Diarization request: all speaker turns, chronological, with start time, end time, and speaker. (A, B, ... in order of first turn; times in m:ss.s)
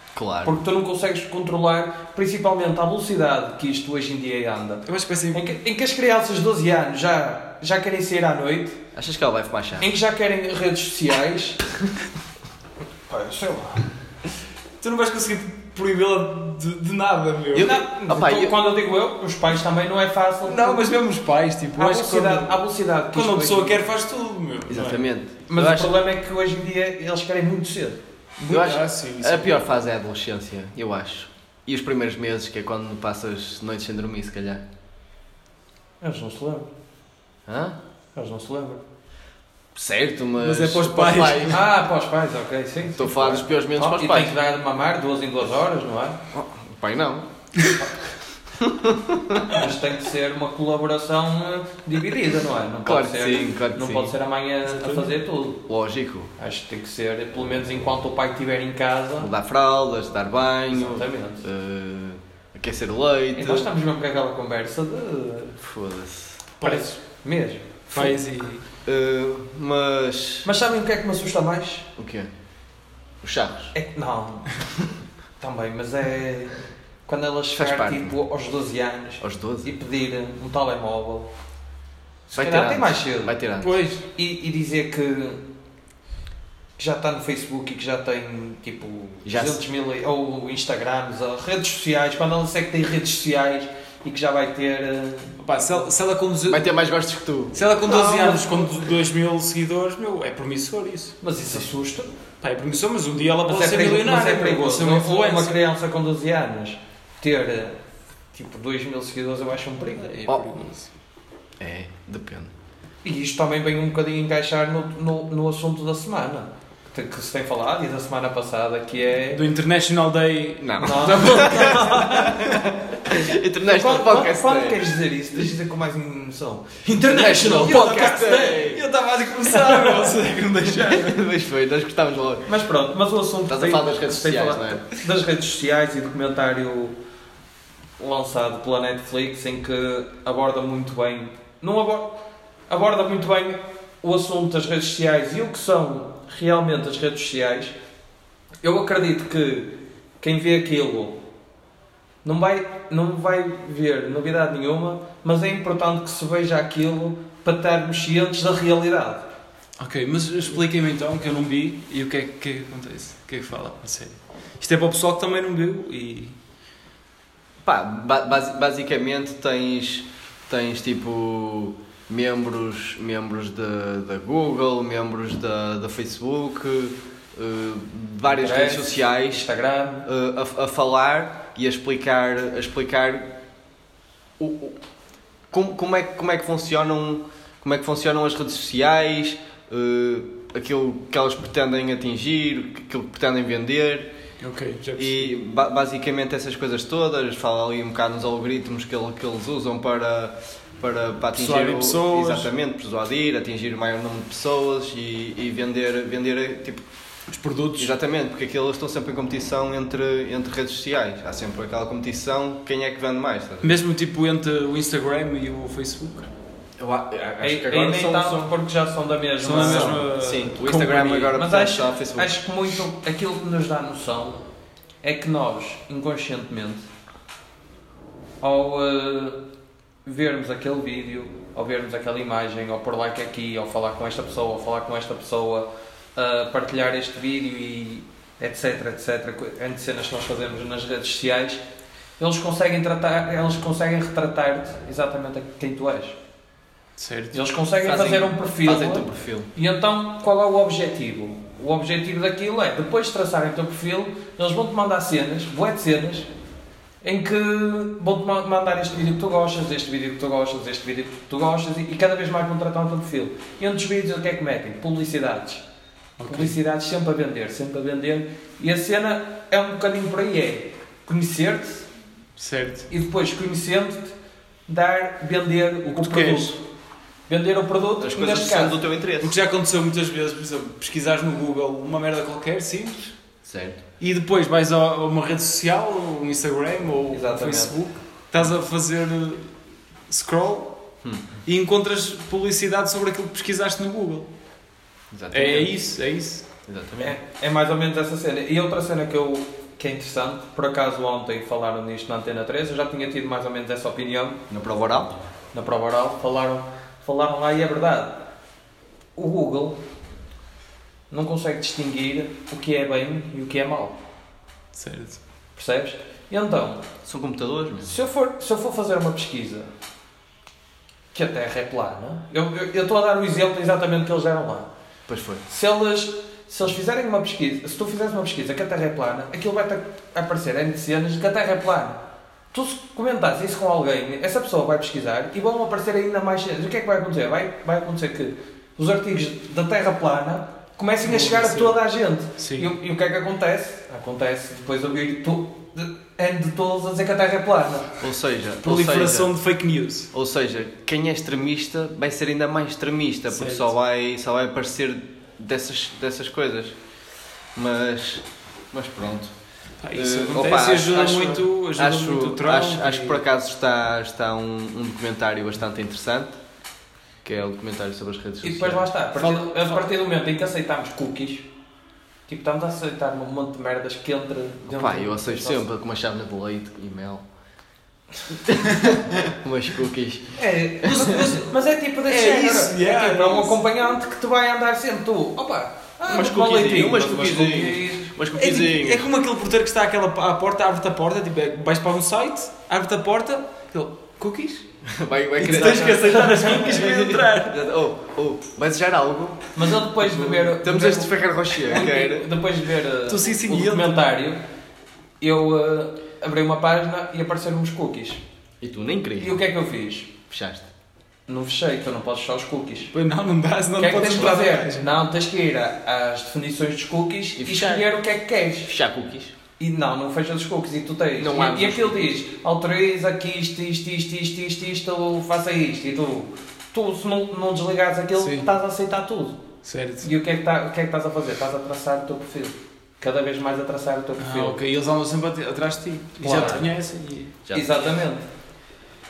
0:00.2-0:00.6 A
0:00.4-0:08.8 B
0:04.9-0:05.4 C
0:08.9-0:09.9 A
0:09.8-0:11.6 B
0:13.1-0:13.9 B
0:14.8-0:17.7 C
0:17.5-0:18.6 A
0:17.6-0:20.8 B
0:20.4-0:22.6 C
0:21.8-0:23.8 B
0:23.1-0:25.1 C
0:24.7-0:25.9 A
0:25.5-0:28.0 B
0:28.4-0:29.6 C
0:28.5-0:34.6 A
0:36.0-0:36.7 B
0:37.5-0:37.8 A
0:38.2-0:38.8 B
0:39.8-0:41.6 A
0:40.4-0:41.6 C
0:41.5-0:46.2 B
0:43.0-0:44.3 A
0:46.3-0:47.3 A
0:48.6-0:49.6 A
0:49.5-0:55.6 B
0:52.8-0:54.1 A
0:54.8-0:55.1 C
0:55.7-0:56.3 A
0:56.4-0:59.3 B
0:59.2-1:03.7 A
1:00.7-1:01.4 B
1:03.4-1:05.6 B
1:05.6-1:06.4 A
1:06.6-1:07.0 C
1:06.6-1:08.1 B
1:07.9-1:08.6 C
1:08.8-1:10.5 A
1:10.4-1:11.9 B
1:12.0-1:12.3 A
1:13.2-1:13.7 A
1:13.7-1:14.5 B
1:15.4-1:21.3 B
1:17.5-1:18.1 A
1:19.2-1:19.7 A
1:22.3-1:23.3 B
1:22.3-1:23.8 A
1:23.6-1:24.0 C
1:24.1-1:25.4 B
1:26.8-1:35.8 B
1:29.2-1:29.6 A
1:35.4-1:36.7 C
1:36.4-1:37.6 A
1:37.5-1:41.2 C
1:37.8-1:38.9 B
1:41.2-1:42.1 B
1:42.4-1:45.6 C
1:43.5-1:47.8 B
1:48.3-1:50.2 B
1:50.0-1:50.9 C
1:51.6-1:52.5 A
1:53.0-1:59.4 B
1:59.3-2:02.4 C
2:00.6-2:04.8 A
2:00.8-2:02.4 B
2:03.7-2:08.7 B
2:07.1-2:08.8 A
2:07.4-2:11.3 C
2:09.5-2:10.1 B
2:10.6-2:12.5 A
2:12.5-2:17.0 B
2:13.5-2:14.8 A
2:18.0-2:27.8 B
2:28.6-2:31.2 B
2:32.2-2:39.3 B
2:39.8-2:46.4 C
2:47.6-2:59.5 A
2:58.3-3:00.1 B
3:00.0-3:03.4 A
3:04.4-3:04.8 A
3:05.5-3:14.1 A
3:14.4-3:15.3 C
3:15.0-3:26.8 A
3:21.3-3:22.5 C
3:27.3-3:27.9 C
3:27.8-3:33.8 A
3:33.6-3:36.3 C
3:36.8-3:38.5 A
3:37.4-3:40.0 B
3:39.4-3:41.4 C
3:39.6-3:42.4 A
3:41.4-3:44.4 B
3:45.0-3:46.9 B
3:48.4-3:49.4 B
3:50.0-4:01.6 B
4:02.2-4:06.2 B
4:07.0-4:07.4 C
4:07.3-4:16.3 B
4:07.8-4:09.5 A
4:17.0-4:25.6 B
4:26.2-4:26.6 C
4:26.2-4:31.9 B
4:32.4-4:32.9 C
4:32.9-4:34.2 B
4:34.7-4:36.6 B
4:35.9-4:36.6 C
4:37.3-4:38.8 B
4:38.0-4:39.4 A
4:39.2-4:43.1 C
4:43.4-4:43.8 A
4:44.0-4:49.5 C
4:47.1-4:47.8 B
4:50.1-4:50.8 C
4:51.0-4:51.4 A
4:51.4-4:54.3 C
4:55.1-4:55.7 A
4:55.3-4:56.5 C
4:56.7-4:57.2 A
4:57.0-5:04.4 B
5:04.5-5:05.2 A
5:05.5-5:08.3 B
5:09.2-5:09.8 B
5:11.1-5:14.0 B
5:14.7-5:15.2 C
5:15.6-5:16.8 B
5:17.0-5:17.9 A
5:17.8-5:19.7 B
5:21.1-5:24.7 B
5:25.1-5:25.4 A
5:25.5-5:47.9 B
5:41.0-5:41.8 C
5:42.4-5:42.7 C
5:48.0-5:49.3 A
5:48.6-5:50.1 C
5:50.1-5:56.8 A
5:53.3-5:53.7 C
5:57.6-5:59.3 A
5:59.8-6:03.2 C
5:59.9-6:06.4 A
6:07.2-6:08.9 A
6:08.4-6:11.5 B
6:09.2-6:09.9 C
6:12.3-6:15.7 B
6:14.7-6:17.2 A
6:18.3-6:21.2 A
6:20.4-6:28.1 B
6:20.8-6:21.5 C
6:22.1-6:23.6 C
6:26.1-6:29.1 A
6:28.3-6:34.7 C
6:34.8-6:42.3 A
6:35.4-6:37.6 C
6:35.9-6:36.5 B
6:39.6-6:44.4 B
6:43.1-6:44.0 C
6:45.2-6:48.2 B
6:48.6-6:49.4 A
6:49.2-6:50.1 B
6:50.3-6:50.7 A
6:51.3-6:52.9 B
6:52.9-6:54.9 C
6:53.8-6:58.7 B
6:57.4-6:57.8 A
6:58.7-6:59.4 A
6:59.6-7:09.4 B
7:01.2-7:02.1 A
7:08.2-7:08.5 C
7:09.6-7:10.1 C
7:10.0-7:14.6 B
7:14.2-7:17.4 C
7:16.2-7:16.7 B
7:17.4-7:17.9 A
7:17.5-7:18.2 B